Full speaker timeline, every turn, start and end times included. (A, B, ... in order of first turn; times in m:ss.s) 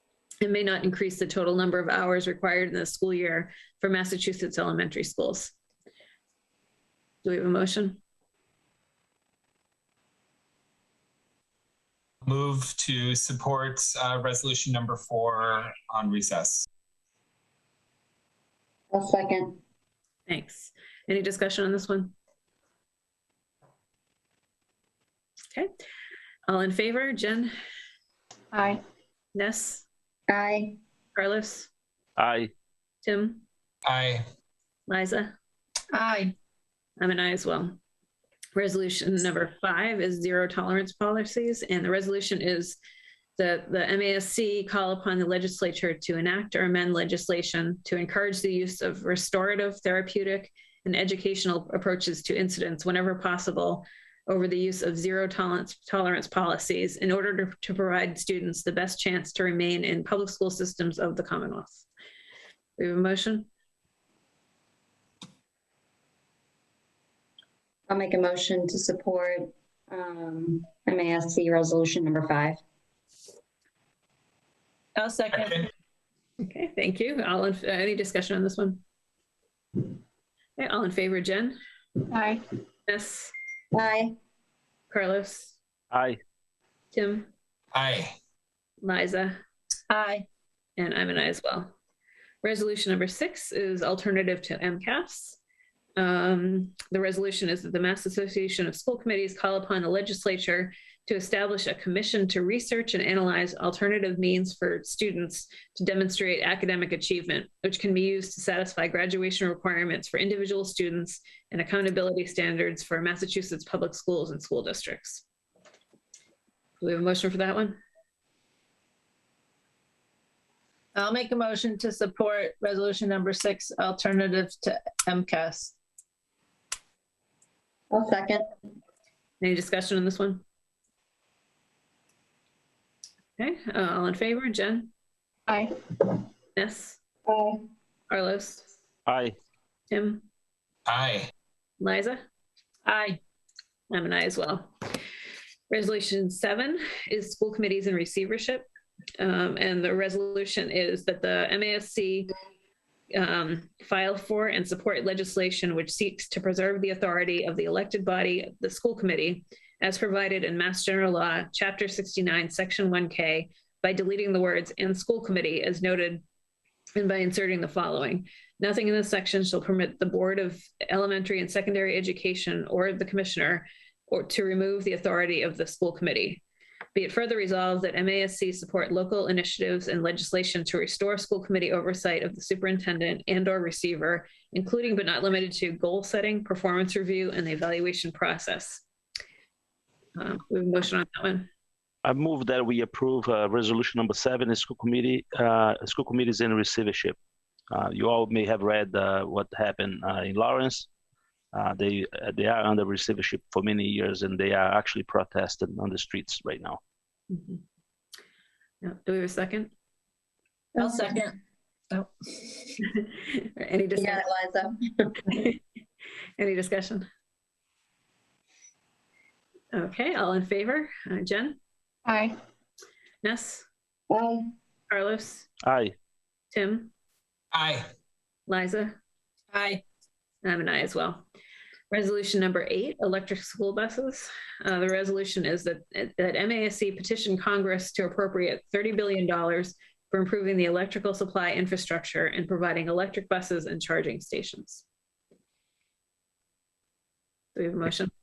0:00.4-0:05.5 A
0:07.2-0:08.0 A
0:12.2-0:16.7 B
0:18.9-0:19.6 C
0:20.3-0:22.1 A
0:26.5-0:27.5 A
0:28.5-0:28.8 D
0:29.3-0:29.8 A
0:30.3-0:30.8 C
0:31.2-0:31.7 A
0:32.2-0:32.5 E
0:33.0-0:33.4 A
0:33.8-0:34.2 B
0:34.9-0:35.3 A
0:35.9-0:36.3 D
0:37.0-0:37.8 A
0:38.5-0:42.8 A
0:43.4-1:01.8 A
1:02.8-1:03.5 A
1:07.9-1:12.6 C
1:15.0-1:15.7 D
1:16.4-1:18.8 A
1:20.6-1:21.6 A
1:22.1-1:22.4 D
1:22.9-1:23.3 A
1:23.7-1:24.2 C
1:24.9-1:25.6 A
1:25.9-1:26.2 E
1:26.9-1:27.3 A
1:27.7-1:28.1 B
1:28.8-1:29.4 A
1:29.9-1:30.2 D
1:30.8-1:31.7 A
1:32.4-1:35.4 A
1:36.0-1:55.2 A
1:56.8-1:57.8 A
2:00.9-2:05.7 D
2:07.9-2:08.4 C
2:09.4-2:10.4 A
2:13.4-2:14.9 A
2:15.5-2:15.7 D
2:16.6-2:17.0 A
2:17.3-2:17.7 C
2:18.1-2:18.6 A
2:19.0-2:19.3 E
2:19.9-2:20.2 A
2:20.9-2:21.3 B
2:21.8-2:22.2 A
2:22.9-2:23.2 D
2:23.9-2:24.7 A
2:25.7-2:28.6 A
2:29.2-2:32.3 A
2:33.1-2:46.2 A
2:47.0-2:56.4 A
2:56.9-3:08.8 A
3:10.2-3:11.5 A
3:12.0-3:17.2 E
3:17.7-3:20.9 E
3:21.5-3:26.8 E
3:27.3-3:27.6 A
3:28.8-3:29.7 A
3:30.8-3:31.3 D
3:32.8-3:34.2 A
3:33.9-3:35.2 C
3:35.3-3:35.6 A
3:36.4-3:37.1 A
3:39.7-3:41.6 A
3:42.0-3:42.4 D
3:43.2-3:43.6 A
3:44.1-3:44.5 C
3:44.9-3:45.5 A
3:45.6-3:45.9 E
3:46.5-3:46.9 A
3:47.5-3:47.9 B
3:48.5-3:49.0 A
3:49.5-3:49.8 D
3:50.4-3:51.2 A
3:51.9-4:04.8 A
4:07.5-4:08.1 A